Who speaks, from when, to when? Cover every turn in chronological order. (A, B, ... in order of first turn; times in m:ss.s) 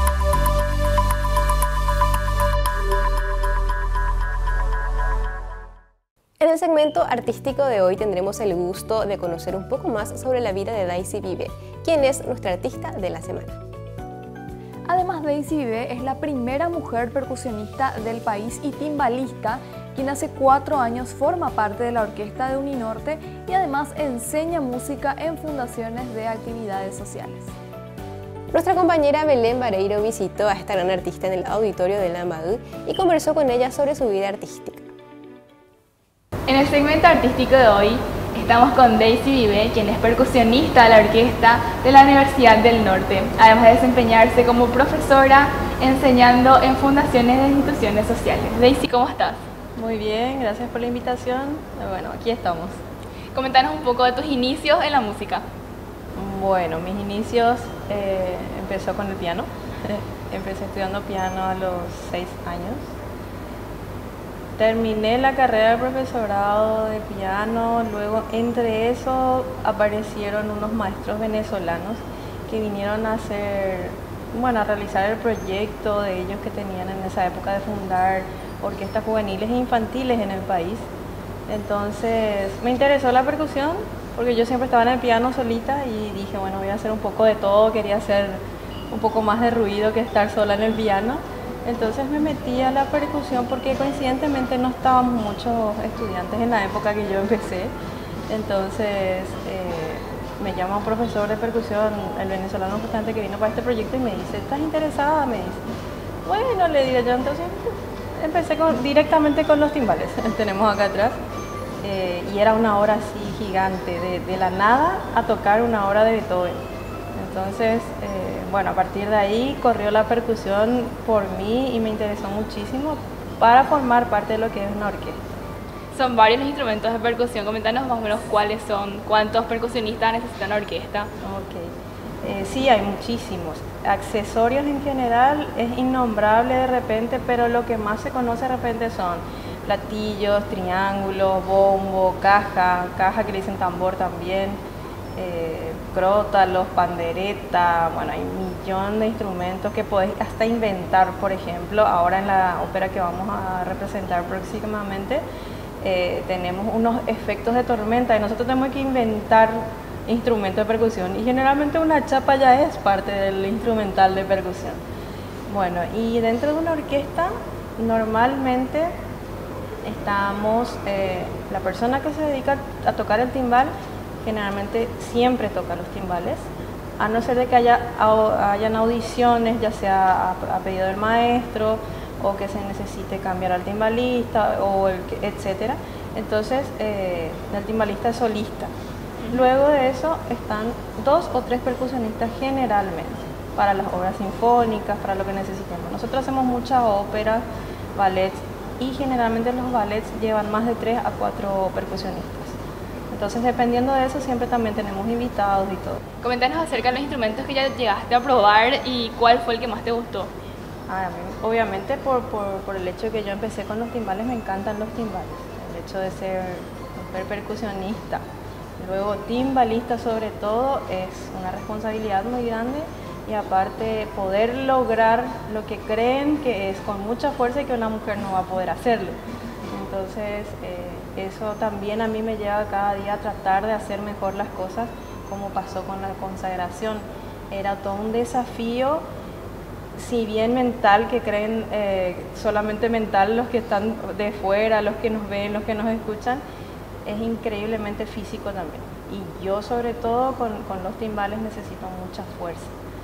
0:06.4-0:13.6 A
0:14.9-0:27.5 B
0:28.5-0:34.9 A
0:36.5-0:49.4 C
0:49.7-0:52.8 D
0:53.3-0:55.4 C
0:56.1-1:02.9 D
1:04.6-1:20.9 D
1:21.5-1:37.7 D
1:38.3-1:45.6 D
1:46.2-1:51.2 D
1:51.8-1:56.6 D
1:57.1-2:05.2 D
2:05.9-2:11.1 C
2:11.2-2:24.6 D
2:25.2-2:35.2 D
2:35.8-2:44.8 D
2:45.4-2:48.9 D
2:49.8-2:56.5 D
2:57.0-3:08.7 D
3:09.3-3:22.6 D
3:23.1-3:26.0 D
3:26.2-3:30.3 C
3:30.9-3:38.2 D
3:38.8-3:59.0 D
4:00.0-4:06.4 D
4:07.0-4:12.7 D